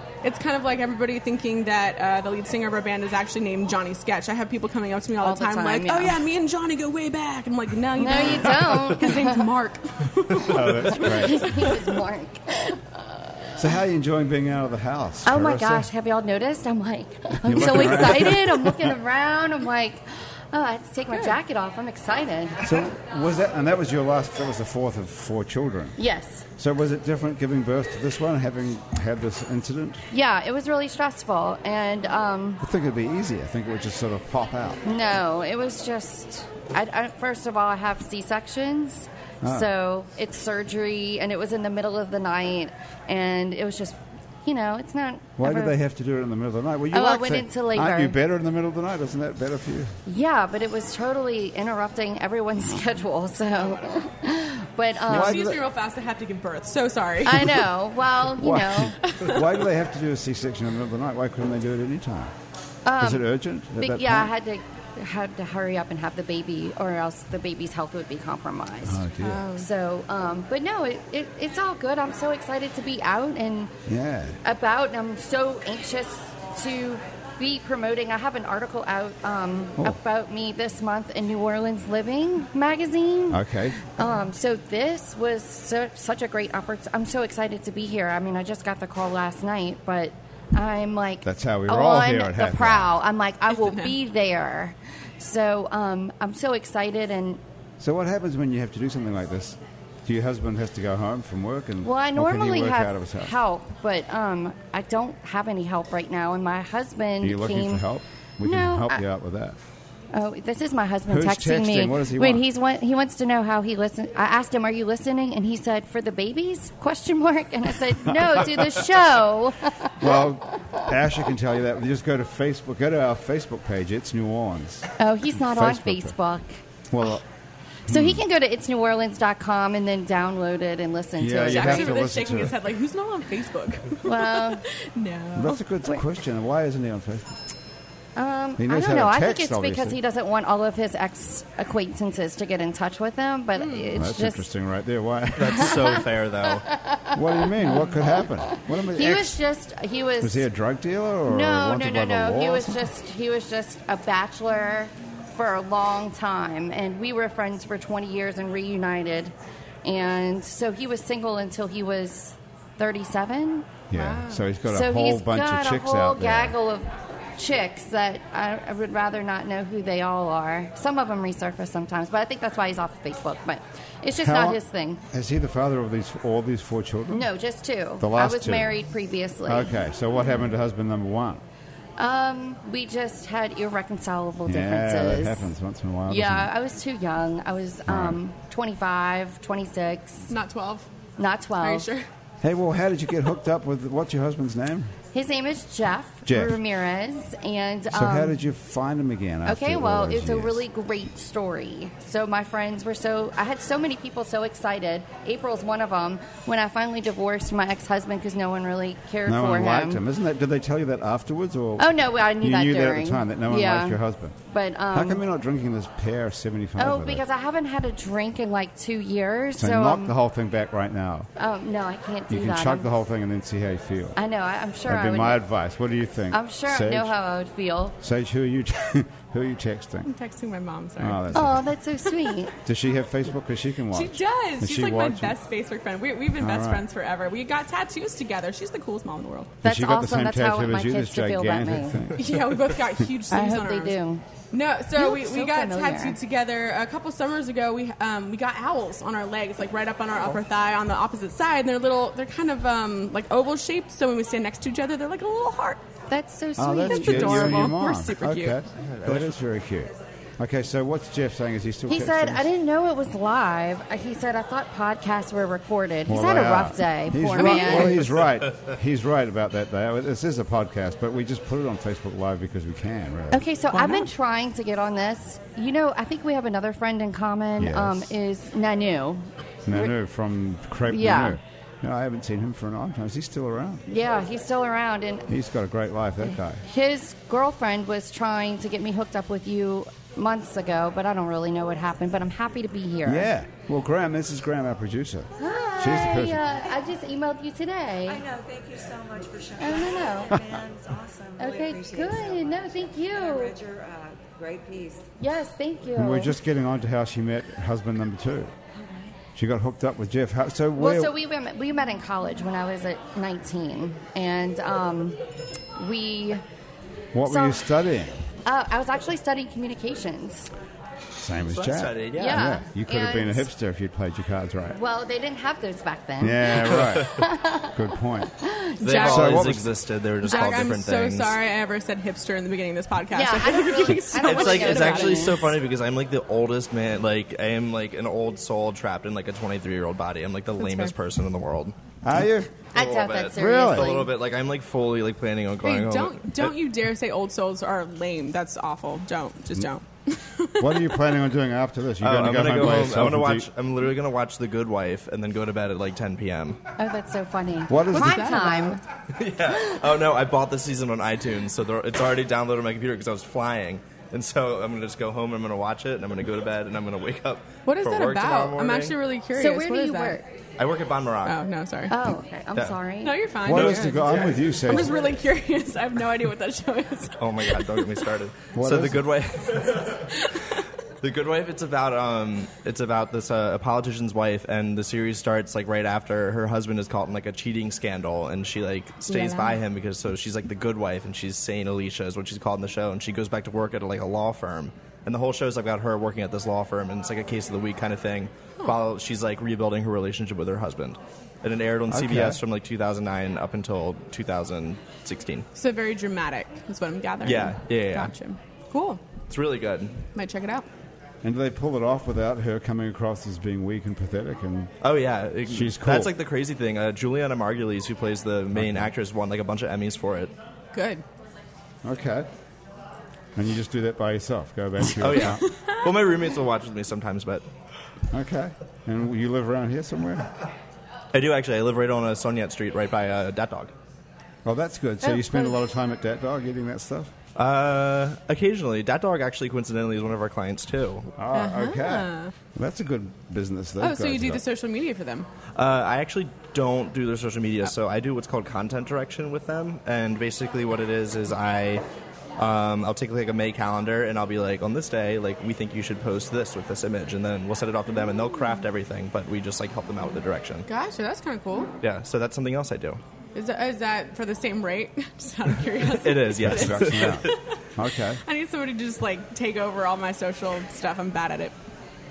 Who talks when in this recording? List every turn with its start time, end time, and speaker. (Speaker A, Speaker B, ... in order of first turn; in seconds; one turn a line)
Speaker A: 0.2-11.8
Speaker B: 5.2-6.2
Speaker B: 8.0-9.5
Speaker C: 10.4-11.6
Speaker B: 11.0-13.6
Speaker C: 13.6-15.9
Speaker B: 15.2-22.9
Speaker C: 17.4-18.9
Speaker C: 22.6-26.0
Speaker B: 26.0-26.4
Speaker C: 26.6-30.1
Speaker B: 30.1-32.6
Speaker C: 32.6-34.8
Speaker B: 34.8-45.8
Speaker C: 39.4-39.7
Speaker C: 45.4-49.9
Speaker B: 46.9-48.2
Speaker B: 50.1-55.4
Speaker C: 55.1-55.6
Speaker A: 55.1-57.7
Speaker B: 57.2-59.0
Speaker C: 58.3-62.3
Speaker A: 59.0-59.5
Speaker B: 62.9-73.7
Speaker C: 63.0-64.3
Speaker C: 68.8-69.5
Speaker A: 69.2-69.7
Speaker C: 73.9-74.4
Speaker B: 74.4-97.4
Speaker C: 83.3-83.8
Speaker C: 91.2-93.0
Speaker A: 93.6-93.9
Speaker C: 97.8-103.3
Speaker B: 101.8-107.8
Speaker C: 107.2-109.6
Speaker B: 108.4-109.0
Speaker B: 110.1-120.9
Speaker C: 111.1-112.4
Speaker C: 118.1-118.7
Speaker C: 120.0-126.2
Speaker B: 125.0-126.5
Speaker C: 126.9-127.2
Speaker C: 127.9-128.2
Speaker B: 127.9-132.0
Speaker C: 131.2-132.6
Speaker A: 131.5-135.6
Speaker B: 134.0-134.6
Speaker C: 135.3-137.4
Speaker B: 138.2-144.5
Speaker C: 138.6-140.0
Speaker A: 143.6-143.9
Speaker C: 143.9-146.0
Speaker D: 145.4-146.7
Speaker B: 145.6-150.4
Speaker C: 147.1-149.4
Speaker C: 150.2-152.9
Speaker B: 151.3-159.3
Speaker B: 159.8-163.7
Speaker C: 163.9-166.6
Speaker A: 163.9-164.4
Speaker B: 164.7-175.0
Speaker C: 174.2-174.6
Speaker C: 175.1-177.3
Speaker B: 177.1-179.7
Speaker C: 178.0-178.7
Speaker C: 179.5-181.4
Speaker B: 182.0-185.5
Speaker C: 184.5-186.5
Speaker B: 186.1-190.3
Speaker C: 187.9-188.2
Speaker A: 190.3-190.9
Speaker B: 191.2-191.9
Speaker A: 191.6-192.1
Speaker C: 192.4-194.9
Speaker B: 195.1-198.4
Speaker C: 196.3-196.6
Speaker C: 197.9-200.7
Speaker B: 199.4-210.0
Speaker C: 209.3-214.4
Speaker B: 211.8-215.2
Speaker C: 214.9-217.2
Speaker B: 216.8-220.1
Speaker C: 219.6-221.3
Speaker B: 221.4-222.9
Speaker C: 222.3-224.2
Speaker B: 224.2-225.4
Speaker C: 224.9-227.1
Speaker B: 226.3-228.0
Speaker C: 228.0-230.1
Speaker A: 230.1-231.2
Speaker C: 231.0-231.7
Speaker B: 231.3-232.5
Speaker A: 232.1-232.3
Speaker C: 232.6-235.4
Speaker A: 233.9-239.5
Speaker C: 236.4-236.9
Speaker B: 239.6-242.1
Speaker C: 239.6-242.5
Speaker A: 242.2-244.0
Speaker B: 243.3-244.2
Speaker A: 244.5-255.8
Speaker B: 244.9-246.2
Speaker B: 256.1-257.8
Speaker C: 256.6-262.5
Speaker A: 256.9-258.6
Speaker D: 258.9-259.3
Speaker B: 261.9-268.1
Speaker C: 266.1-273.4
Speaker A: 267.4-267.9
Speaker B: 273.3-279.9
Speaker A: 273.7-274.1
Speaker C: 277.6-278.1
Speaker C: 279.7-283.8
Speaker B: 280.9-281.4
Speaker B: 283.9-285.3
Speaker C: 285.3-286.6
Speaker B: 286.6-293.3
Speaker C: 293.1-296.4
Speaker B: 295.4-298.2
Speaker E: 298.1-305.1
Speaker B: 299.6-300.4
Speaker B: 301.4-303.6
Speaker B: 305.2-306.4
Speaker C: 305.9-308.5
Speaker E: 308.8-309.2
Speaker C: 309.4-311.1
Speaker B: 310.8-315.2
Speaker B: 315.8-316.4
Speaker C: 317.1-318.2
Speaker B: 317.3-317.7
Speaker B: 318.4-320.5
Speaker C: 321.2-324.8
Speaker D: 321.5-322.5
Speaker B: 322.1-323.5
Speaker B: 324.7-329.0
Speaker C: 326.2-328.3
Speaker D: 326.7-327.1
Speaker D: 328.8-331.4
Speaker A: 328.8-329.5
Speaker C: 329.0-329.7
Speaker A: 330.2-335.5
Speaker B: 333.1-335.5
Speaker D: 334.1-341.8
Speaker A: 340.6-340.9
Speaker C: 342.0-342.5
Speaker B: 342.7-344.1
Speaker D: 342.8-346.6
Speaker C: 343.4-344.0
Speaker A: 345.6-351.0
Speaker C: 350.6-353.5
Speaker D: 352.0-356.6
Speaker B: 356.8-358.8
Speaker C: 357.7-358.7
Speaker A: 357.9-358.8
Speaker D: 359.1-369.0
Speaker A: 367.7-370.2
Speaker B: 369.4-370.3
Speaker D: 370.6-371.4
Speaker A: 371.2-371.9
Speaker B: 371.9-373.2
Speaker A: 373.0-378.1
Speaker D: 373.4-374.8
Speaker C: 373.4-375.0
Speaker D: 377.2-380.2
Speaker C: 378.6-379.1
Speaker D: 381.0-405.5
Speaker A: 389.1-389.6
Speaker C: 401.9-402.4
Speaker A: 405.6-409.0
Speaker D: 407.2-408.1
Speaker D: 409.3-410.1
Speaker A: 410.1-410.7
Speaker C: 411.2-414.7
Speaker D: 414.8-420.3
Speaker C: 415.5-416.1
Speaker C: 418.6-418.9
Speaker A: 420.7-421.0
Speaker C: 421.8-422.3
Speaker C: 423.4-425.4
Speaker D: 425.0-427.4
Speaker C: 428.1-430.3
Speaker D: 431.1-433.7
Speaker C: 434.4-437.1
Speaker A: 435.1-435.3
Speaker D: 437.4-441.1
Speaker C: 441.2-444.4
Speaker A: 441.3-442.3
Speaker A: 443.8-445.3
Speaker D: 445.6-451.8
Speaker D: 452.4-460.7
Speaker A: 460.7-461.7
Speaker D: 461.8-463.0
Speaker A: 463.4-467.4
Speaker D: 465.8-467.3
Speaker C: 466.4-468.2
Speaker A: 468.2-471.6